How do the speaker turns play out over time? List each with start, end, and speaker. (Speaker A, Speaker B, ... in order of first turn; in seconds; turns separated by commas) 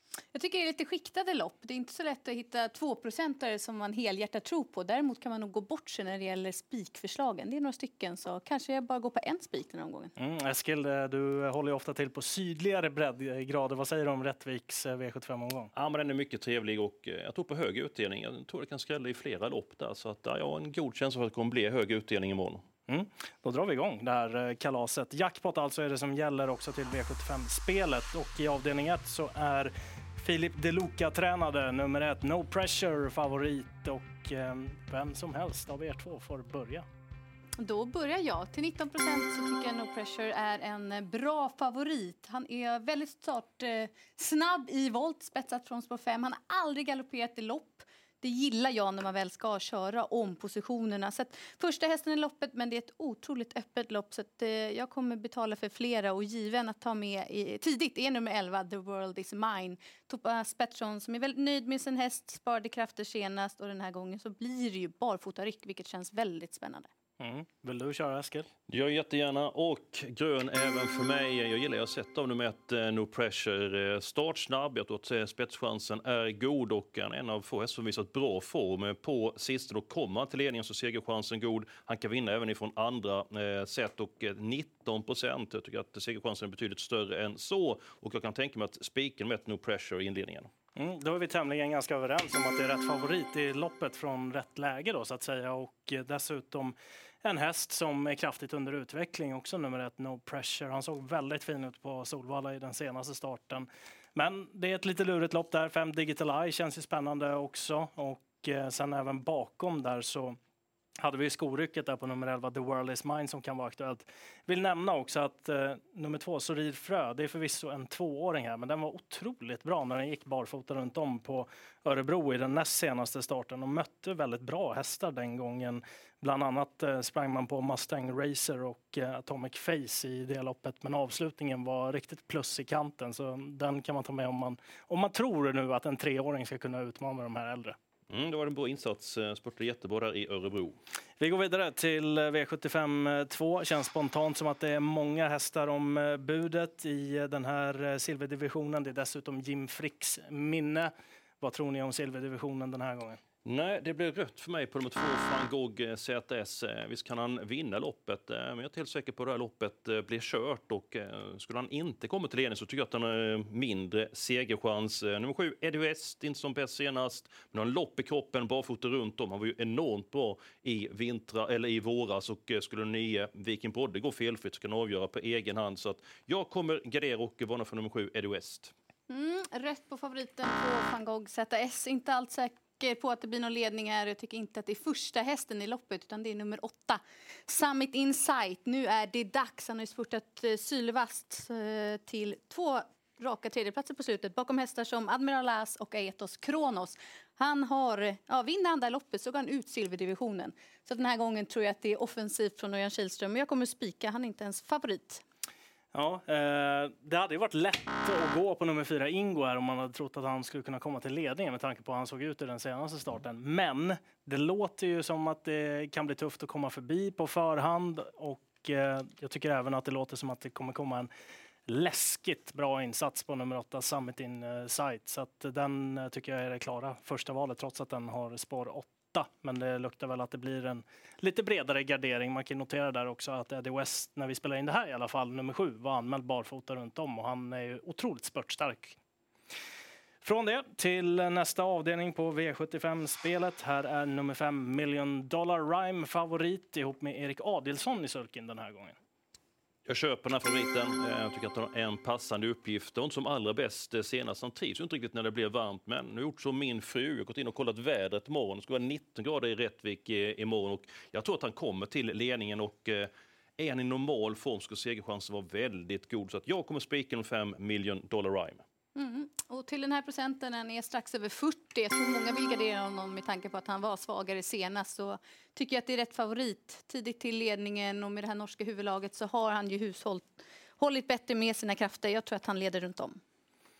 Speaker A: 0.3-10.1, Speaker B: 10.2-15.7, Speaker C: 15.7-22.6, Speaker B: 22.9-36.8, Speaker A: 37.6-66.9, Speaker B: 67.2-68.5, Speaker C: 68.7-90.5, Speaker B: 90.8-110.4, Speaker B: 111.0-137.8, Speaker C: 138.1-140.8, Speaker B: 141.2-153.2, Speaker C: 153.4-178.7, Speaker A: 179.1-205.2, Speaker B: 205.9-221.1, Speaker B: 221.7-239.0, Speaker B: 240.2-249.0, Speaker C: 249.9-268.6, Speaker A: 268.9-283.2